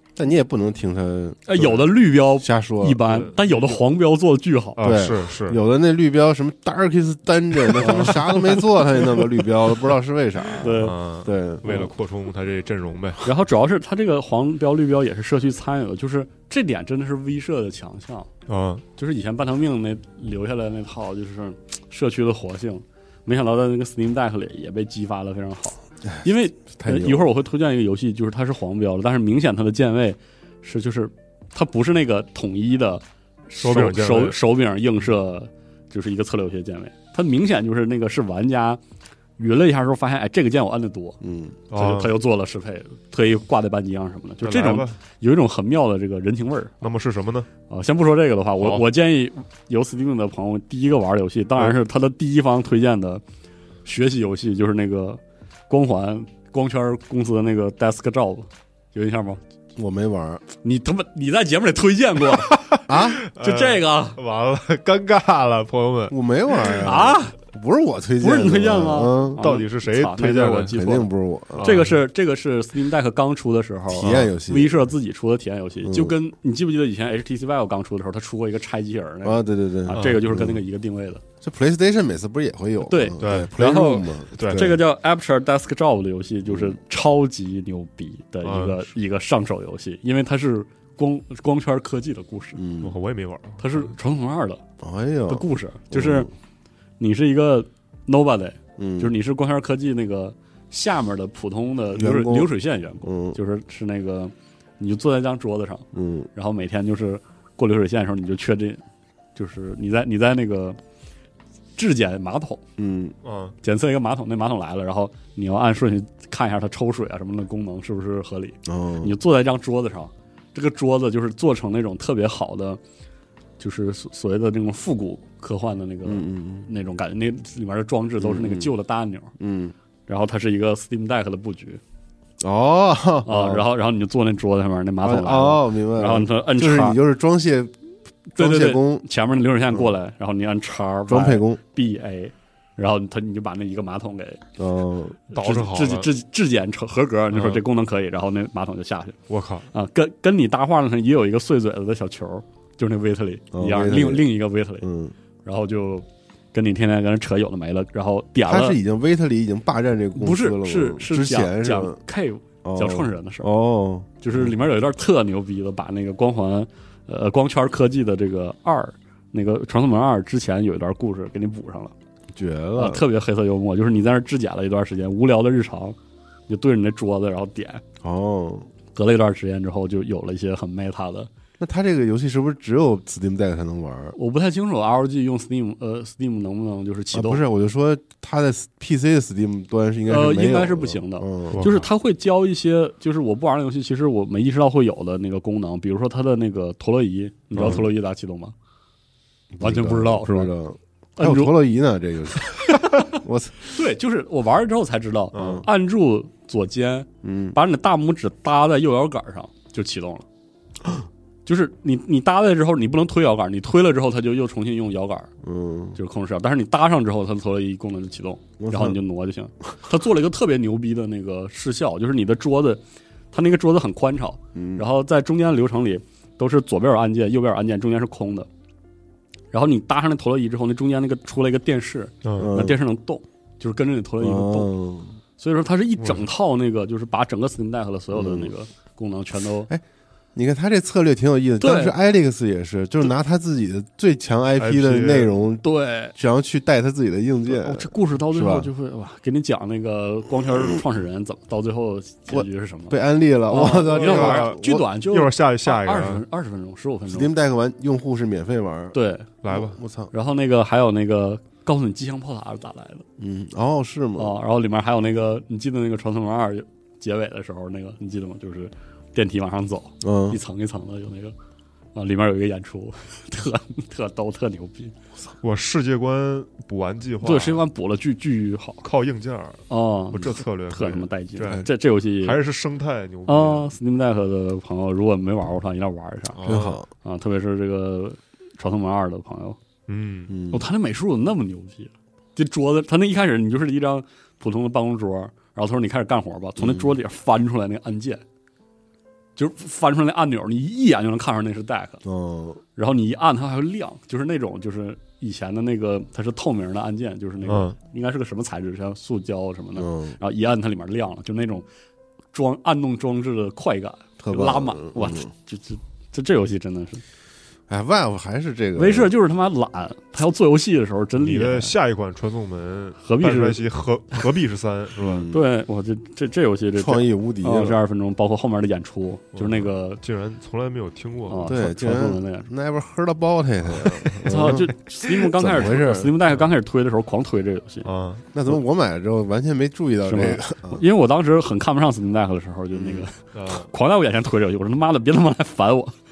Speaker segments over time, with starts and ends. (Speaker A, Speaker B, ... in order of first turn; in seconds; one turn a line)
Speaker A: 0.2-3.0
Speaker B: 1.5-4.8
Speaker C: 3.1-3.8
Speaker C: 4.8-5.6
Speaker A: 4.8-11.9
Speaker B: 7.8-8.6
Speaker B: 10.6-10.9
Speaker C: 10.6-13.3
Speaker B: 13.2-18.3
Speaker C: 18.5-18.8
Speaker B: 19.0-38.8
Speaker A: 26.8-27.2
Speaker C: 33.6-34.4
Speaker B: 39.4-41.2
Speaker A: 41.2-41.6
Speaker C: 41.7-42.1
Speaker B: 41.7-46.8
Speaker C: 44.4-45.0
Speaker C: 46.8-47.5
Speaker B: 47.7-53.2
Speaker C: 48.6-48.8
Speaker B: 53.8-59.4
Speaker A: 59.8-60.4
Speaker B: 60.6-64.2
Speaker C: 62.6-66.9
Speaker A: 62.9-63.2
Speaker A: 66.1-69.4
Speaker B: 66.8-67.3
Speaker B: 68.2-81.2
Speaker C: 69.4-70.7
Speaker A: 70.7-71.7
Speaker C: 71.5-72.0
Speaker A: 73.9-74.8
Speaker C: 74.0-74.3
Speaker A: 75.8-76.2
Speaker A: 79.2-80.6
Speaker C: 79.9-80.2
Speaker A: 81.4-84.8
Speaker B: 82.8-92.6
Speaker C: 83.2-83.5
Speaker C: 84.4-84.7
Speaker A: 86.5-86.8
Speaker C: 88.4-88.9
Speaker A: 92.5-92.9
Speaker C: 92.8-93.9
Speaker B: 93.6-94.6
Speaker A: 94.8-96.3
Speaker B: 95.3-96.3
Speaker B: 97.0-108.8
Speaker A: 98.8-99.1
Speaker A: 101.9-103.4
Speaker A: 105.9-106.3
Speaker B: 109.3-110.8
Speaker B: 111.8-112.6
Speaker A: 112.8-113.2
Speaker C: 113.2-113.5
Speaker B: 113.6-122.8
Speaker A: 118.7-119.2
Speaker B: 123.6-129.3
Speaker A: 126.0-126.7
Speaker A: 128.2-128.7
Speaker A: 129.4-129.7
Speaker B: 130.1-131.8
Speaker A: 132.4-133.7
Speaker B: 133.2-137.0
Speaker A: 135.0-137.7
Speaker B: 138.3-144.4
Speaker A: 138.4-139.0
Speaker A: 141.1-141.6
Speaker A: 144.6-145.3
Speaker B: 145.3-149.2
Speaker C: 145.3-146.1
Speaker C: 147.3-147.6
Speaker C: 149.3-149.7
Speaker B: 149.7-154.9
Speaker A: 153.5-154.3
Speaker A: 154.8-155.1
Speaker B: 155.4-158.8
Speaker A: 158.4-162.0
Speaker B: 160.1-163.5
Speaker A: 162.6-164.5
Speaker B: 164.2-171.9
Speaker A: 172.3-173.0
Speaker B: 172.7-175.9
Speaker B: 176.5-177.8
Speaker A: 178.0-178.7
Speaker B: 178.9-181.3
Speaker A: 181.6-184.2
Speaker B: 184.1-187.4
Speaker A: 187.1-191.6
Speaker B: 190.1-198.5
Speaker C: 191.5-191.9
Speaker C: 197.5-197.8
Speaker A: 197.6-197.8
Speaker A: 199.5-203.5
Speaker B: 199.6-200.5
Speaker B: 201.2-201.5
Speaker B: 202.6-210.2
Speaker C: 205.3-205.6
Speaker A: 205.4-205.6
Speaker A: 207.2-207.6
Speaker B: 211.4-215.3
Speaker A: 215.4-216.0
Speaker B: 215.9-228.5
Speaker A: 218.6-219.0
Speaker A: 224.5-224.8
Speaker B: 229.5-234.7
Speaker C: 232.2-232.5
Speaker A: 232.4-232.8
Speaker A: 234.2-235.2
Speaker B: 235.4-239.7
Speaker C: 236.0-236.2
Speaker A: 238.1-238.5
Speaker A: 240.3-248.7
Speaker B: 241.6-241.9
Speaker C: 244.6-245.3
Speaker B: 245.6-246.1
Speaker B: 247.5-252.9
Speaker A: 252.3-254.8
Speaker B: 253.5-257.3
Speaker C: 253.6-256.2
Speaker A: 257.1-260.1
Speaker B: 258.9-259.3
Speaker C: 259.4-259.8
Speaker B: 260.1-263.0
Speaker A: 263.2-264.4
Speaker B: 264.2-271.3
Speaker A: 270.0-270.4
Speaker B: 271.9-274.9
Speaker C: 275.4-277.6
Speaker B: 277.2-278.8
Speaker C: 278.8-283.7
Speaker B: 279.7-282.4
Speaker B: 283.3-286.4
Speaker C: 286.3-286.8
Speaker A: 286.4-286.9
Speaker B: 287.0-289.6
Speaker C: 289.9-290.3
Speaker A: 290.3-290.6
Speaker B: 290.5-298.2
Speaker A: 296.6-296.9
Speaker B: 299.4-302.0
Speaker A: 302.0-302.6
Speaker B: 302.7-311.6
Speaker C: 307.4-307.8
Speaker A: 309.8-310.2
Speaker B: 312.3-317.0
Speaker A: 314.2-315.3
Speaker A: 317.7-319.1
Speaker B: 318.8-321.8
Speaker C: 321.2-325.3
Speaker B: 323.0-323.6
Speaker A: 325.0-325.4
Speaker B: 325.1-330.0
Speaker A: 326.8-327.8
Speaker C: 329.3-331.6
Speaker B: 331.3-332.5
Speaker A: 331.4-336.1
Speaker C: 333.8-334.2
Speaker B: 334.2-337.9
Speaker C: 337.8-338.3
Speaker A: 338.3-340.8
Speaker B: 340.0-345.9
Speaker A: 342.7-343.1
Speaker C: 343.3-343.7